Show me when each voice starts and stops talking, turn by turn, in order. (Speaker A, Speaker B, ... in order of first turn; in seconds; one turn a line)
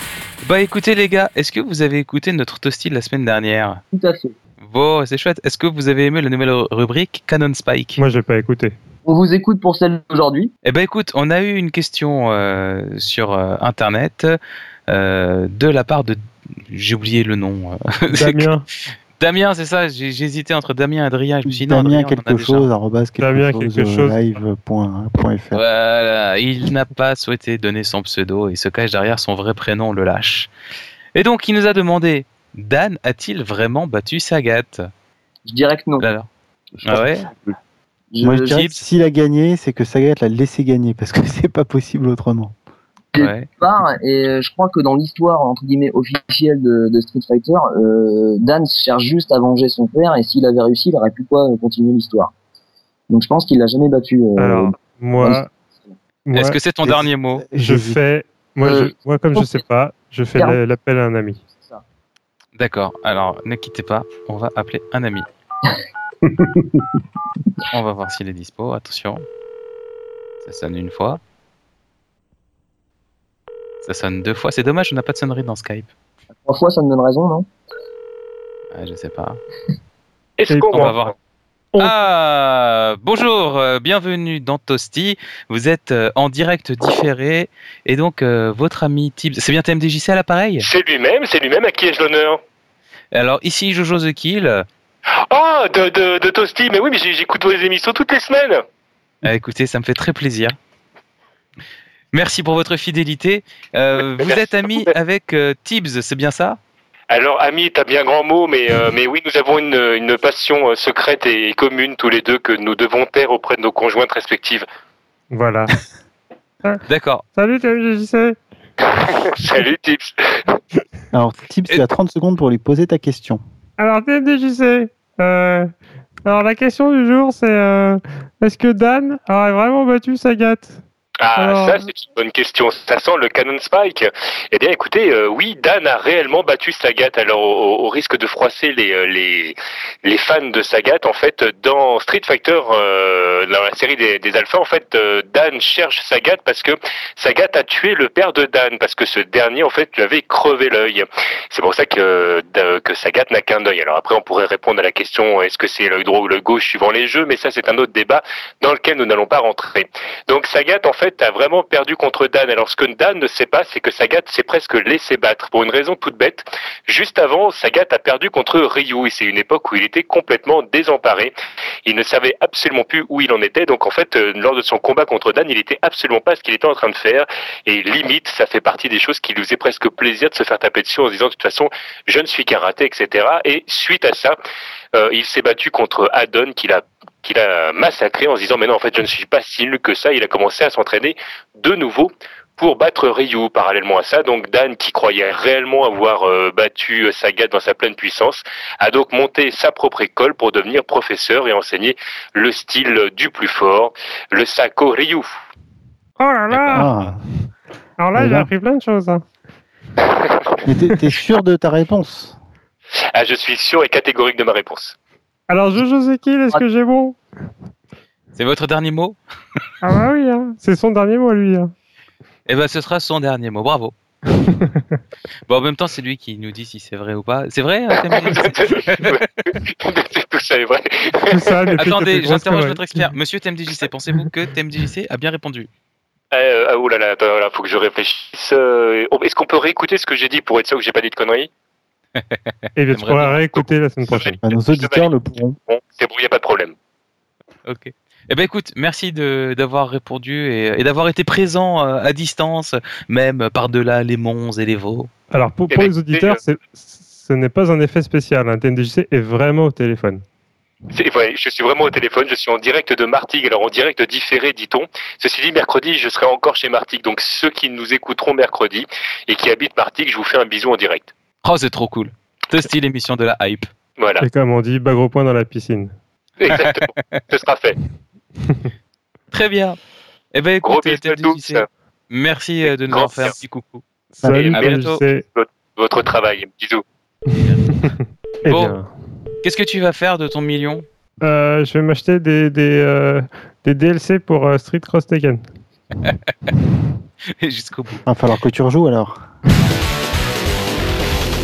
Speaker A: 0.4-3.8
Speaker B: 3.9-4.3
Speaker A: 4.6-8.0
Speaker C: 8.0-8.8
Speaker B: 9.1-10.5
Speaker A: 10.6-14.4
Speaker A: 14.9-18.6
Speaker C: 18.1-18.6
Speaker A: 19.2-22.7
Speaker D: 21.4-25.6
Speaker C: 23.2-24.2
Speaker A: 25.5-30.5
Speaker A: 31.1-34.9
Speaker B: 35.4-36.0
Speaker A: 36.0-36.3
Speaker A: 36.9-37.3
Speaker B: 38.1-38.6
Speaker D: 38.2-42.5
Speaker A: 38.3-38.8
Speaker B: 43.1-52.3
Speaker A: 43.1-43.5
Speaker B: 53.1-56.0
Speaker C: 54.4-55.4
Speaker C: 56.2-56.6
Speaker A: 56.3-57.4
Speaker D: 56.8-58.0
Speaker C: 57.5-61.4
Speaker B: 58.6-59.7
Speaker B: 60.3-60.6
Speaker B: 61.5-61.8
Speaker A: 62.6-65.3
Speaker A: 67.7-69.2
Speaker A: 70.4-71.2
Speaker A: 73.8-75.9
Speaker B: 76.4-77.5
Speaker A: 78.7-79.4
Speaker E: 80.4-81.1
Speaker C: 80.5-81.0
Speaker A: 80.7-81.1
Speaker A: 81.8-90.7
Speaker E: 90.6-92.4
Speaker A: 93.1-94.7
Speaker E: 95.3-98.6
Speaker A: 99.2-100.6
Speaker A: 102.1-106.6
Speaker E: 104.0-104.9
Speaker E: 107.1-114.7
Speaker C: 115.3-115.8
Speaker A: 116.9-117.3
Speaker C: 117.3-118.4
Speaker E: 118.8-120.6
Speaker D: 121.1-123.4
Speaker C: 123.8-125.7
Speaker C: 126.2-130.8
Speaker E: 131.2-171.3
Speaker C: 131.4-131.8
Speaker E: 171.8-184.3
Speaker E: 184.9-205.3
Speaker C: 206.2-206.9
Speaker A: 206.5-207.1
Speaker D: 206.7-207.2
Speaker C: 208.0-209.2
Speaker D: 208.2-208.5
Speaker E: 210.0-210.6
Speaker D: 210.6-212.3
Speaker E: 213.1-214.9
Speaker C: 215.5-217.2
Speaker A: 218.3-219.2
Speaker C: 219.8-221.7
Speaker A: 222.4-223.9
Speaker C: 224.4-224.8
Speaker A: 225.5-229.2
Speaker E: 227.9-232.1
Speaker C: 231.3-232.8
Speaker A: 231.8-235.7
Speaker E: 236.3-241.5
Speaker A: 242.2-243.7
Speaker C: 242.8-244.3
Speaker E: 244.0-245.1
Speaker D: 244.4-245.6
Speaker E: 245.7-246.7
Speaker A: 247.6-255.1
Speaker C: 255.3-260.2
Speaker E: 255.7-256.4
Speaker E: 260.9-271.1
Speaker A: 271.4-273.7
Speaker E: 274.0-274.2
Speaker C: 274.2-275.9
Speaker E: 276.4-277.8
Speaker A: 279.3-279.8
Speaker A: 280.3-283.8
Speaker E: 280.6-281.7
Speaker E: 282.6-283.4
Speaker C: 284.2-285.2
Speaker D: 284.2-284.5
Speaker E: 284.2-286.8
Speaker A: 284.5-285.0
Speaker C: 287.3-288.9
Speaker A: 287.4-287.9
Speaker A: 288.4-288.8
Speaker A: 289.4-290.9
Speaker C: 291.2-295.4
Speaker A: 296.0-296.5
Speaker A: 297.4-298.0
Speaker D: 298.1-299.2